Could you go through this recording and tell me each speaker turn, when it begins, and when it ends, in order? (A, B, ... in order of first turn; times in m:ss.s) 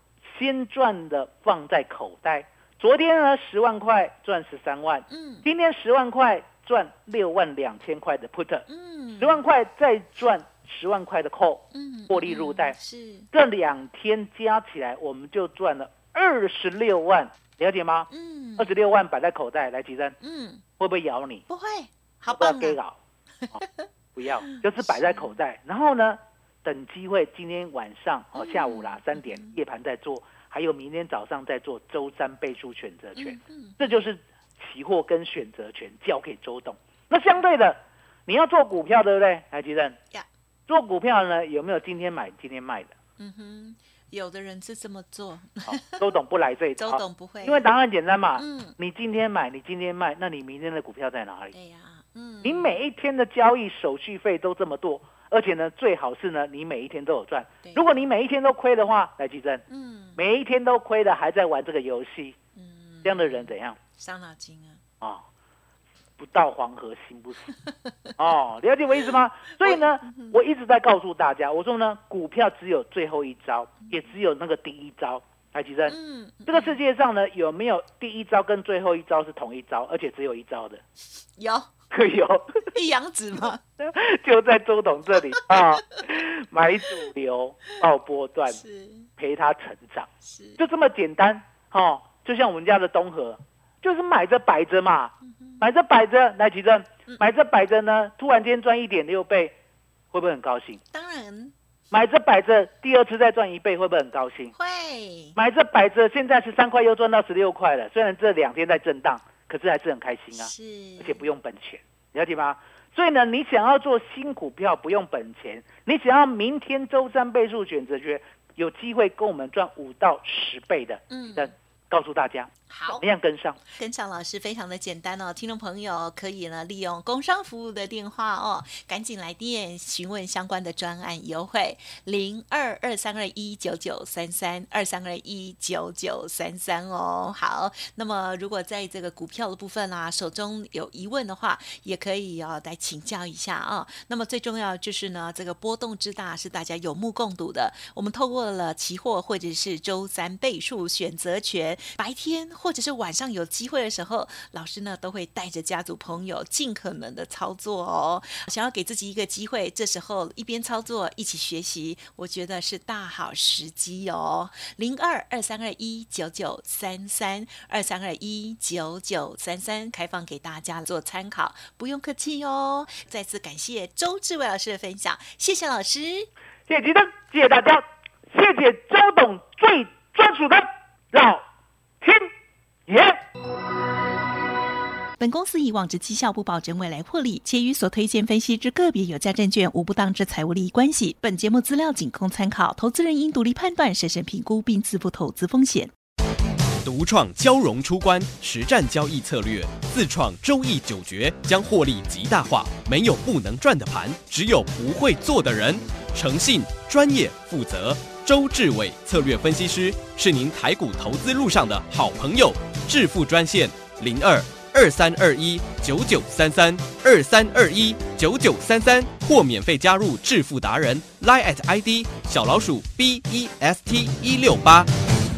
0:00.2-0:08.6 A
0:05.1-0:05.4 B
0:08.7-0:09.4 B
0:09.2-0:12.8 A
0:11.7-0:13.3 B
0:13.3-0:20.2 A
0:18.1-0:18.8 B
0:20.2-0:20.6 B
0:20.8-0:21.4 A
0:21.5-0:22.8 B
0:22.3-0:23.0 A
0:23.4-0:23.9 B
0:24.1-0:40.0 A
0:24.4-0:25.3 B
0:28.4-0:29.6 B
0:33.2-0:34.0 B
0:40.7-0:42.9 A
0:43.2-0:46.0 B
0:45.7-0:51.5 A
0:46.8-0:47.6 B
0:48.4-0:48.8 B
0:51.5-0:52.7 B
0:52.4-0:59.6 A
0:57.6-0:57.9 B
0:59.7-1:00.2 B
1:00.2-1:02.4 A
1:02.5-1:04.8 B
1:03.0-1:03.8 A
1:06.2-1:07.5 A
1:07.5-1:08.2 B
1:08.2-1:16.0 A
1:09.0-1:10.4 B
1:15.9-1:16.8 B
1:16.5-1:20.8 A
1:21.4-1:21.7 B
1:21.9-1:22.7 A
1:22.7-1:23.6 B
1:23.8-1:28.6 A
1:28.5-1:29.1 B
1:29.2-1:39.5 A
1:30.2-1:30.6 B
1:35.2-1:35.6 B
1:40.1-1:40.8 A
1:40.9-1:41.5 B
1:41.9-1:44.5 A
1:44.5-1:45.4 B
1:45.4-2:03.6 A
1:50.3-1:51.3 B
2:01.1-2:01.5 B
2:02.7-2:03.0 B
2:03.7-2:56.3 B
2:56.7-3:01.4 A
3:02.0-3:02.3 A
3:02.9-3:03.2 A
3:05.2-3:15.9 B
3:16.8-3:44.9 C